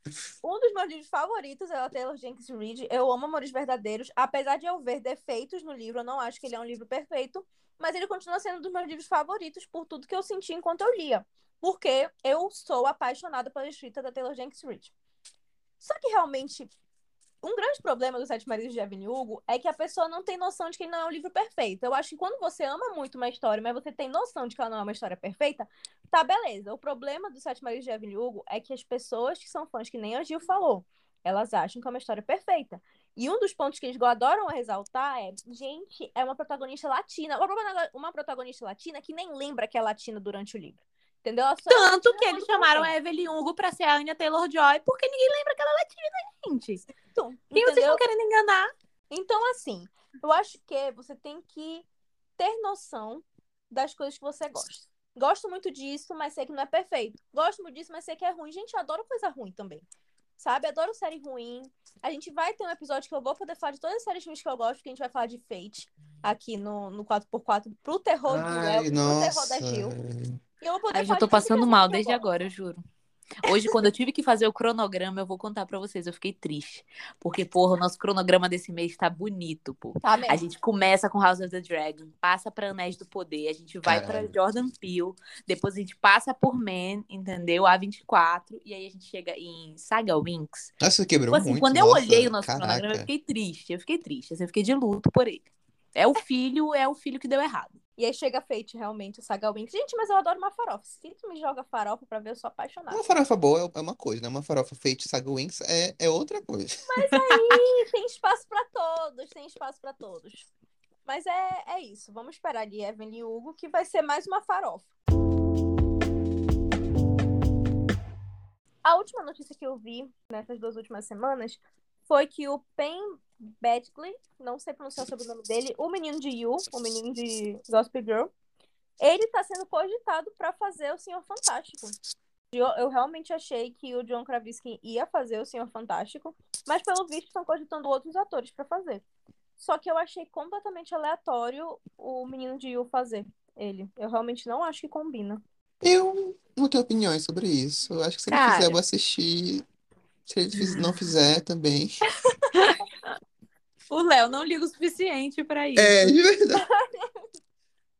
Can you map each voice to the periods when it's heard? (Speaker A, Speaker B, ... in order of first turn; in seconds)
Speaker A: 0.4-14.9, 15.8-16.7, 17.4-42.9, 47.1-48.0, 49.1-51.9, 52.4-59.9, 60.4-69.9, 70.6-72.3, 80.0-80.4, 98.0-103.0, 106.8-110.5, 111.0-114.9, 118.8-128.3, 129.0-131.9, 132.5-139.0, 139.6-145.4, 156.6-157.0
Speaker B: 41.7-46.8, 47.5-48.7, 70.9-72.8, 73.4-90.7, 91.3-97.8, 148.3-148.8, 152.5-153.1, 153.9-156.1
Speaker C: 68.2-70.4, 83.8-84.3, 90.8-93.1, 102.9-106.8, 145.8-149.6, 150.2-152.0, 155.8-156.7